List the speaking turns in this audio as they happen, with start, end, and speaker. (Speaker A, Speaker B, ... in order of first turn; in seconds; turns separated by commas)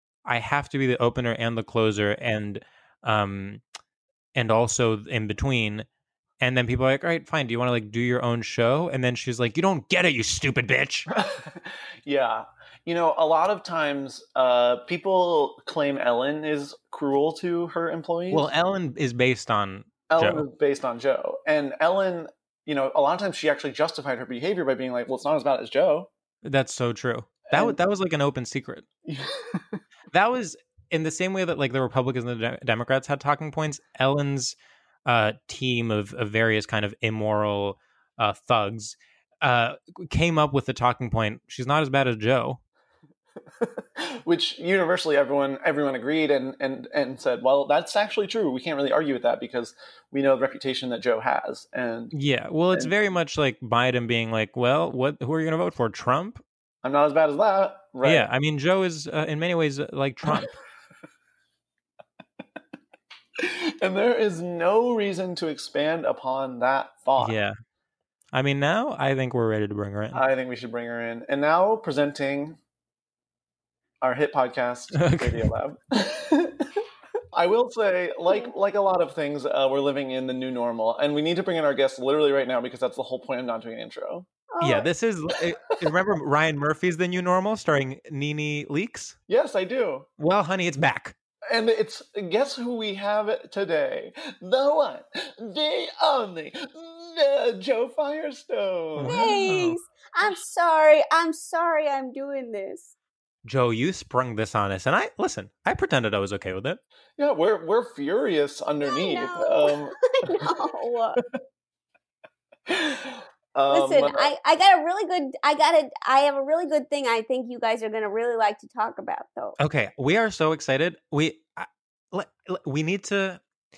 Speaker A: 0.2-3.6, Speaker A: 4.3-5.9, Speaker A: 6.4-11.1, Speaker B: 11.1-18.5, Speaker A: 18.3-20.5, Speaker B: 20.1-26.1, Speaker A: 26.4-28.9, Speaker B: 27.5-27.8, Speaker B: 29.1-29.8, Speaker A: 30.1-42.6, Speaker B: 43.6-52.1, Speaker A: 52.1-56.4, Speaker B: 56.8-58.3, Speaker A: 58.0-60.5, Speaker B: 63.4-67.4, Speaker A: 67.2-67.5, Speaker A: 68.3-70.2, Speaker B: 70.1-72.6, Speaker B: 74.0-76.8, Speaker A: 74.9-75.5, Speaker B: 77.3-84.3, Speaker C: 84.5-84.9, Speaker A: 84.6-89.2, Speaker B: 89.3-90.1, Speaker A: 90.2-91.2, Speaker B: 91.5-99.2, Speaker A: 99.0-99.8, Speaker C: 99.1-102.9, Speaker A: 103.5-106.8, Speaker B: 107.2-110.3, Speaker C: 108.8-111.2, Speaker B: 112.7-114.3, Speaker C: 113.7-119.6, Speaker A: 119.6-123.4